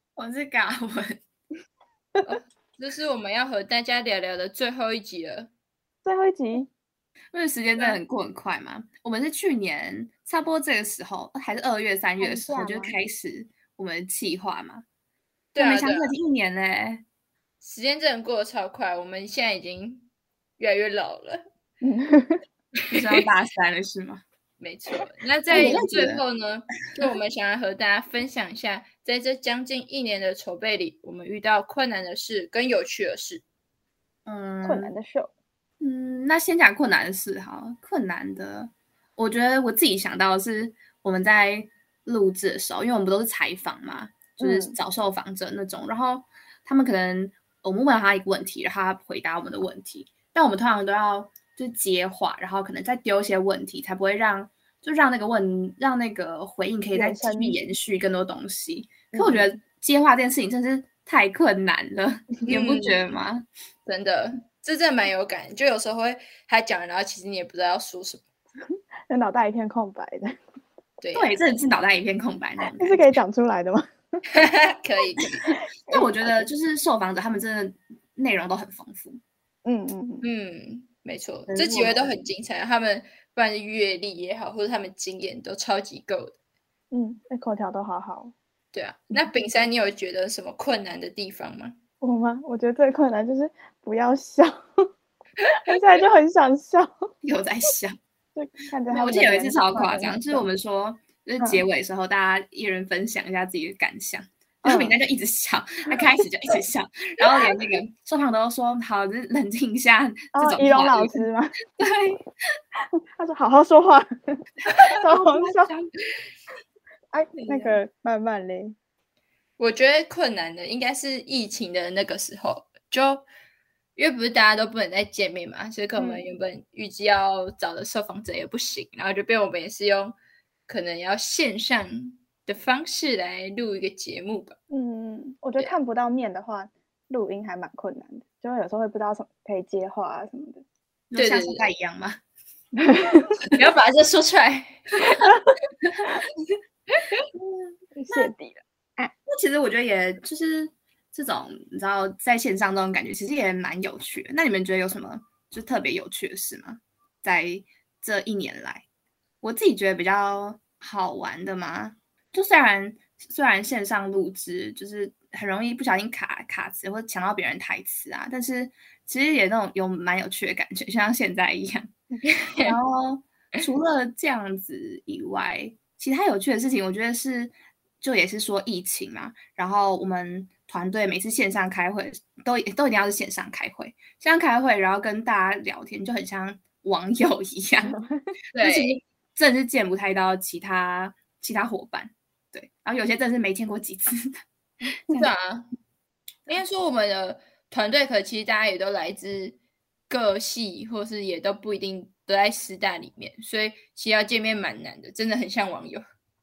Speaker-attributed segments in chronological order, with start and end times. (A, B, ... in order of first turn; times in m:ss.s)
0:00.2-0:01.2 A
0:02.3-0:05.5 B
0:06.0-0:06.7 C
0:07.3-0:14.8 A
0:12.2-0:13.0 C
0:15.5-0:16.2 B
0:15.6-0:17.0 A
0:17.6-0:20.1 B
0:20.6-0:21.4 B
0:21.8-0:22.4 C
0:22.9-0:24.2 A
0:24.6-0:33.4 B
0:25.5-0:26.2 A
0:34.3-0:34.9 A
0:34.6-0:35.3 C
0:35.8-1:03.5 A
0:44.4-0:44.8 C
0:56.9-0:57.6 C
0:59.1-0:59.5 C
1:02.5-1:03.0 B
1:03.9-1:08.2 B
1:09.1-1:10.3 C
1:11.0-1:11.3 B
1:11.1-1:13.2 A
1:12.8-1:13.9 C
1:14.3-1:15.5 B
1:15.9-1:16.5 C
1:15.9-1:19.2 A
1:19.6-1:20.3 C
1:20.2-1:26.4 B
1:21.5-1:22.2 A
1:26.9-1:28.3 C
1:28.7-1:31.8 B
1:32.0-1:34.6 C
1:35.5-1:36.9 C
1:37.2-1:38.0 A
1:38.4-1:40.5 C
1:38.9-1:51.2 A
1:44.6-1:45.0 C
1:50.3-1:51.5 C
1:51.8-1:52.2 A
1:53.2-1:54.1 C
1:54.9-1:55.9 A
1:54.9-1:55.7 C
1:57.1-1:58.8 C
1:57.4-1:57.8 A
1:59.6-2:03.3 B
2:04.0-2:10.2 B
2:06.0-2:06.3 C
2:10.7-2:14.6 B
2:14.7-2:20.6 C
2:21.1-2:22.2 A
2:21.2-2:21.7 B
2:22.8-2:23.4 C
2:23.5-2:25.3 B
2:28.0-2:29.1 C
2:29.3-2:38.8 A
2:39.4-2:51.9 A
2:52.3-2:52.8 B
2:52.6-3:08.0 A
3:07.8-3:08.3 C
3:08.5-3:09.0 B
3:08.6-3:14.3 A
3:15.1-3:15.7 B
3:16.5-3:19.6 B
3:20.1-3:26.0 B